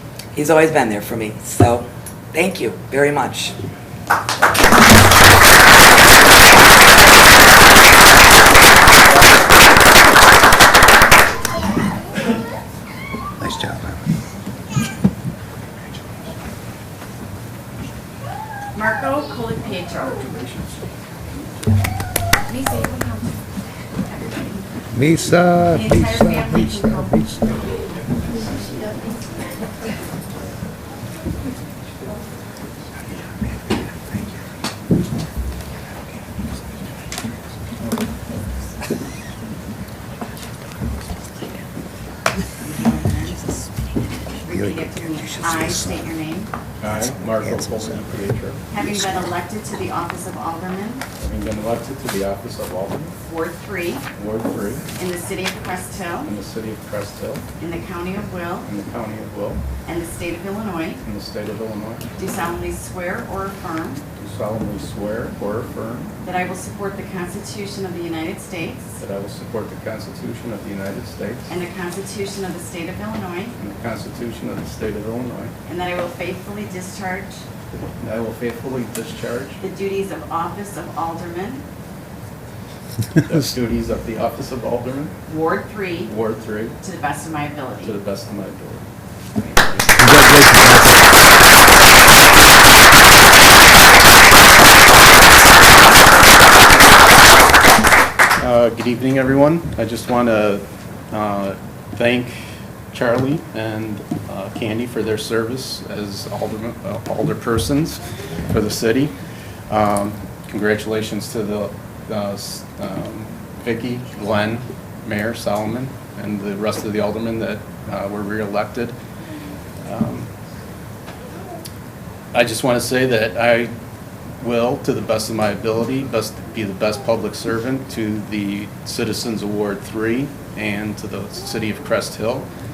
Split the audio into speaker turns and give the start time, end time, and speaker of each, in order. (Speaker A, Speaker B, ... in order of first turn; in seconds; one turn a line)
Speaker A: 0.3-3.6
Speaker B: 13.4-14.0
Speaker C: 18.7-20.3
Speaker C: 22.5-23.4
Speaker C: 24.0-24.6
Speaker B: 24.9-27.4
Speaker C: 25.7-27.7
Speaker C: 28.5-29.1
Speaker C: 42.6-43.4
Speaker C: 44.4-46.5
Speaker B: 44.5-46.0
Speaker D: 46.8-48.6
Speaker B: 47.0-48.1
Speaker C: 48.7-51.0
Speaker D: 51.2-53.2
Speaker C: 53.2-54.0
Speaker D: 54.2-54.9
Speaker C: 55.0-56.4
Speaker D: 56.3-57.4
Speaker C: 57.6-58.7
Speaker D: 58.7-59.6
Speaker C: 59.9-61.0
Speaker D: 61.0-62.1
Speaker C: 62.2-64.0
Speaker D: 64.2-66.1
Speaker C: 66.2-69.0
Speaker D: 69.0-71.5
Speaker C: 71.5-73.6
Speaker D: 73.6-75.5
Speaker C: 75.7-77.4
Speaker D: 78.0-79.6
Speaker C: 79.6-81.6
Speaker D: 83.2-85.1
Speaker C: 85.3-86.1
Speaker D: 86.1-86.8
Speaker C: 86.8-88.0
Speaker D: 87.8-88.8
Speaker B: 90.0-91.1
Speaker D: 98.4-109.1
Speaker D: 109.7-119.0
Speaker D: 119.8-120.3
Speaker D: 122.3-123.7
Speaker D: 124.4-132.5